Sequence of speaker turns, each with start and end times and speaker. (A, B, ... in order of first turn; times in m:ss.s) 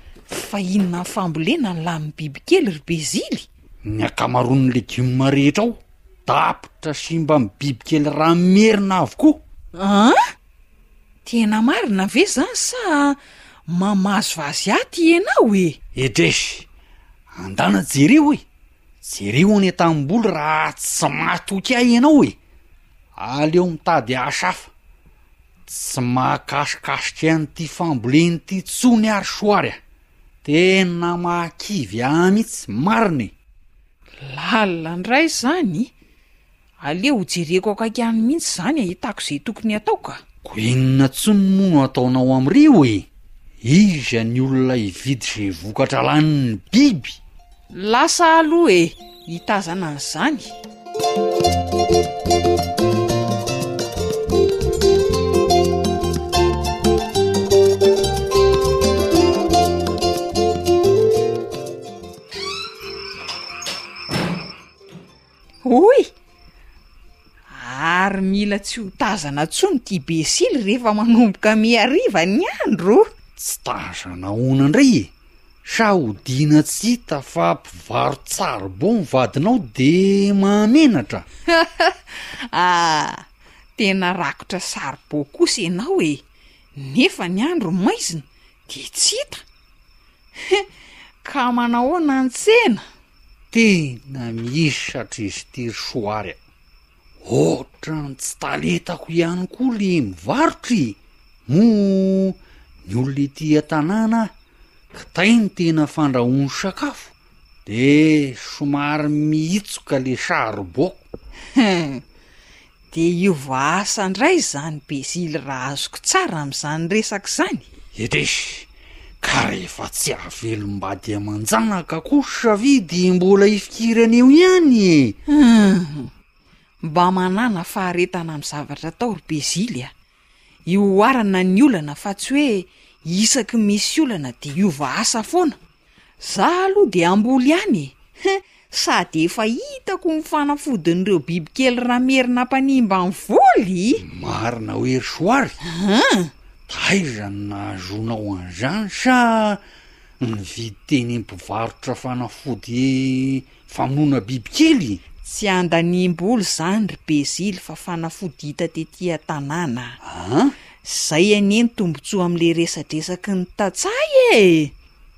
0:00.3-0:03.5 A
0:03.8-0:09.4 B
0:09.8-0:10.2 A
0:11.2-0:15.8 A
0:16.0-0:16.7 B
0:17.4-0:18.4 B
0:19.0-0:22.4 B
0:23.2-0:24.7 B
0:25.7-0:29.8 B
0:30.4-0:33.3 B
0:34.2-0:35.9 A
0:36.8-0:40.2 A
0:40.4-0:43.1 B
0:43.6-0:47.2 B
0:47.7-0:50.6 A
1:05.6-1:06.1 A
1:07.5-1:13.1 A
1:13.4-1:15.1 B
1:15.6-1:21.3 B
1:21.6-1:23.2 A
1:23.8-1:26.2 A
1:26.8-1:29.4 A
1:31.2-1:32.8 A
1:33.5-1:36.4 B
1:37.2-1:44.3 B
1:44.9-1:47.1 B
1:47.7-1:51.0 B
1:51.6-1:52.0 A
1:52.9-1:57.7 A
1:58.0-1:58.7 B
1:59.2-2:05.2 B
2:05.3-2:06.1 A
2:06.8-2:09.9 A
2:10.7-2:15.6 A
2:16.2-2:24.0 A
2:24.0-2:25.6 B
2:25.7-2:26.3 A
2:26.7-2:29.6 B
2:30.2-2:35.0 B
2:35.2-2:40.0 A
2:40.0-2:40.6 B
2:40.8-2:44.7 A